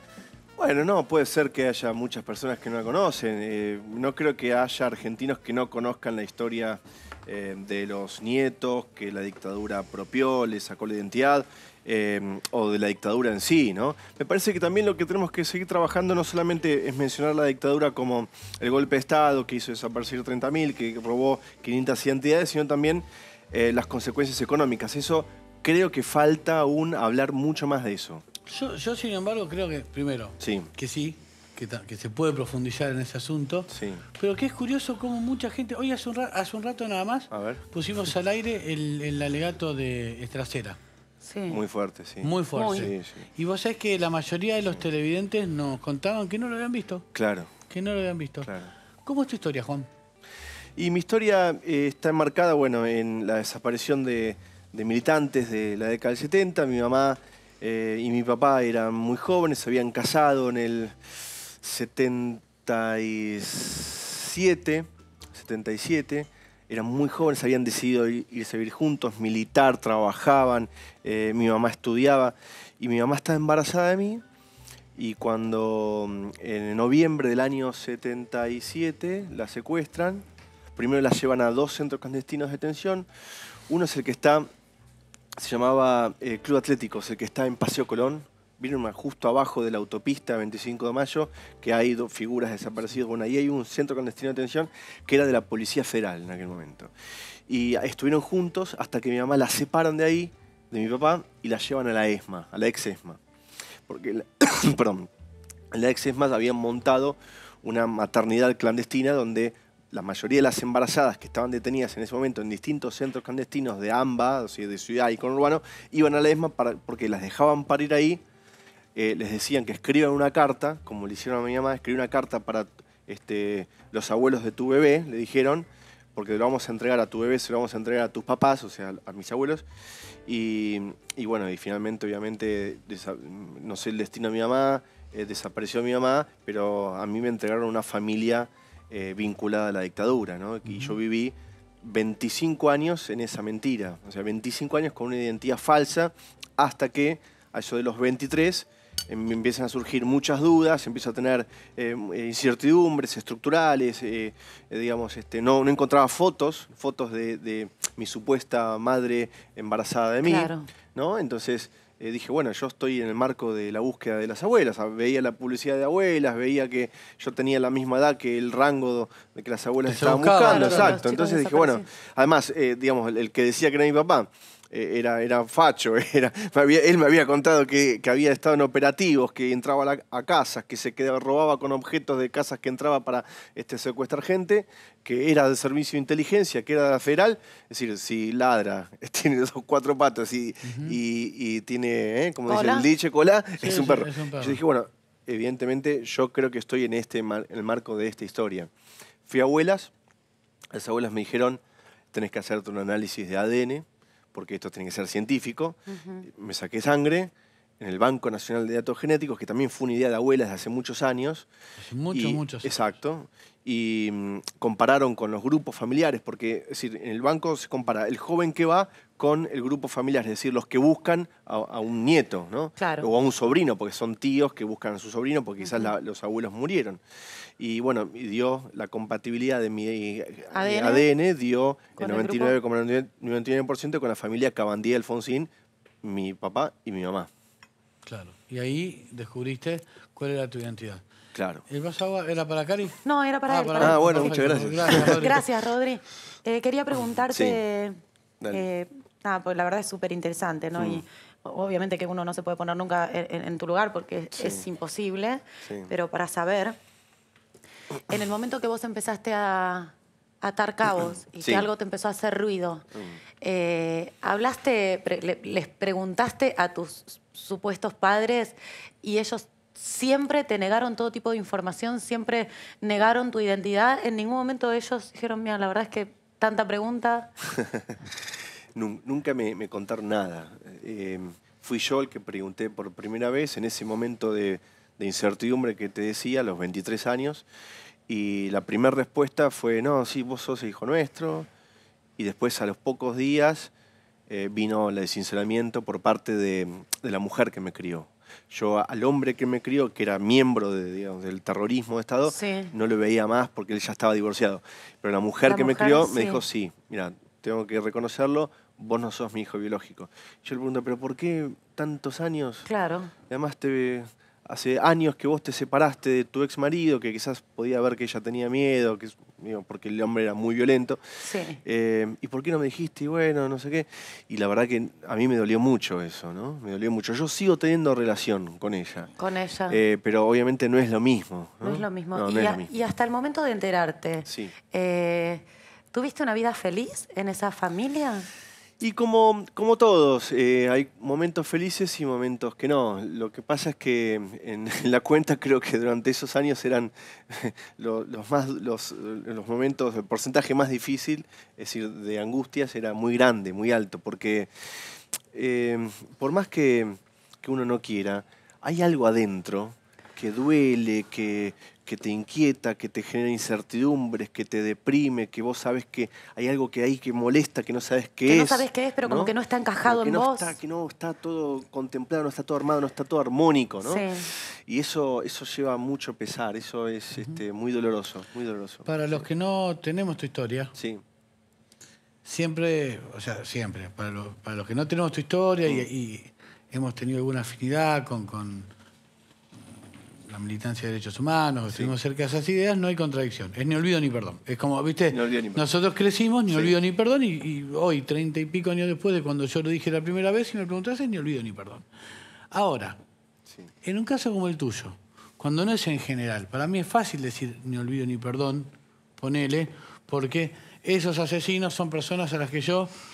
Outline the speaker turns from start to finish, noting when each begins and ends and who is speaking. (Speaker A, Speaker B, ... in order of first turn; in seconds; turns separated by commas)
Speaker A: 0.6-28.2, Speaker B: 28.5-40.8, Speaker A: 30.4-30.7, Speaker A: 33.7-34.0, Speaker A: 37.3-37.6, Speaker C: 41.2-41.6, Speaker A: 41.5-43.3, Speaker B: 42.2-47.1, Speaker C: 42.5-42.9, Speaker A: 47.1-47.5, Speaker B: 47.7-48.5, Speaker A: 48.4-48.7, Speaker B: 49.0-49.9, Speaker A: 50.8-61.0, Speaker A: 61.6-74.2, Speaker A: 75.0-80.2, Speaker A: 80.8-83.1, Speaker A: 83.7-84.5, Speaker A: 85.4-96.9, Speaker A: 97.5-103.2, Speaker A: 103.9-105.1, Speaker A: 105.7-118.2, Speaker A: 119.0-129.7, Speaker A: 130.3-198.7, Speaker B: 140.7-141.0, Speaker C: 160.2-160.7, Speaker B: 169.9-171.0, Speaker C: 170.4-171.9, Speaker B: 190.6-191.0, Speaker C: 192.5-192.9, Speaker B: 193.6-194.6, Speaker A: 199.3-199.9, Speaker A: 200.7-201.6, Speaker A: 202.1-211.5, Speaker C: 205.9-206.3, Speaker B: 211.8-212.8, Speaker A: 212.1-227.0, Speaker C: 222.8-223.1, Speaker C: 225.6-225.9, Speaker A: 227.6-235.5, Speaker C: 230.5-231.1, Speaker C: 232.0-232.6, Speaker A: 236.0-237.3, Speaker B: 238.0-241.0, Speaker A: 241.3-241.6, Speaker B: 241.7-245.4, Speaker C: 243.0-244.4, Speaker A: 243.8-245.4, Speaker C: 244.9-248.0, Speaker A: 247.3-247.6, Speaker A: 248.4-248.7, Speaker C: 248.5-256.8, Speaker A: 250.8-251.0, Speaker A: 254.3-254.7, Speaker A: 255.6-255.9, Speaker C: 258.1-262.9, Speaker A: 261.4-261.7, Speaker A: 262.9-263.2, Speaker C: 263.4-277.3, Speaker A: 278.8-287.5, Speaker A: 288.1-291.5, Speaker A: 292.2-293.7, Speaker A: 294.3-312.7, Speaker C: 302.3-302.7, Speaker C: 305.5-306.4, Speaker C: 312.7-313.1, Speaker A: 313.3-321.0, Speaker C: 321.2-321.6, Speaker A: 321.6-329.1, Speaker C: 329.2-329.8, Speaker A: 329.7-332.7, Speaker C: 331.6-338.3, Speaker A: 334.3-334.6, Speaker A: 338.8-354.5, Speaker A: 355.3-379.3, Speaker C: 368.3-370.6, Speaker C: 373.8-374.3, Speaker B: 377.1-377.4, Speaker B: 378.9-380.8, Speaker A: 380.8-381.0, Speaker B: 382.2-388.7, Speaker B: 390.2-401.9, Speaker A: 391.7-391.9, Speaker A: 395.1-395.7, Speaker A: 396.5-396.8, Speaker B: 402.5-403.0, Speaker B: 403.8-412.9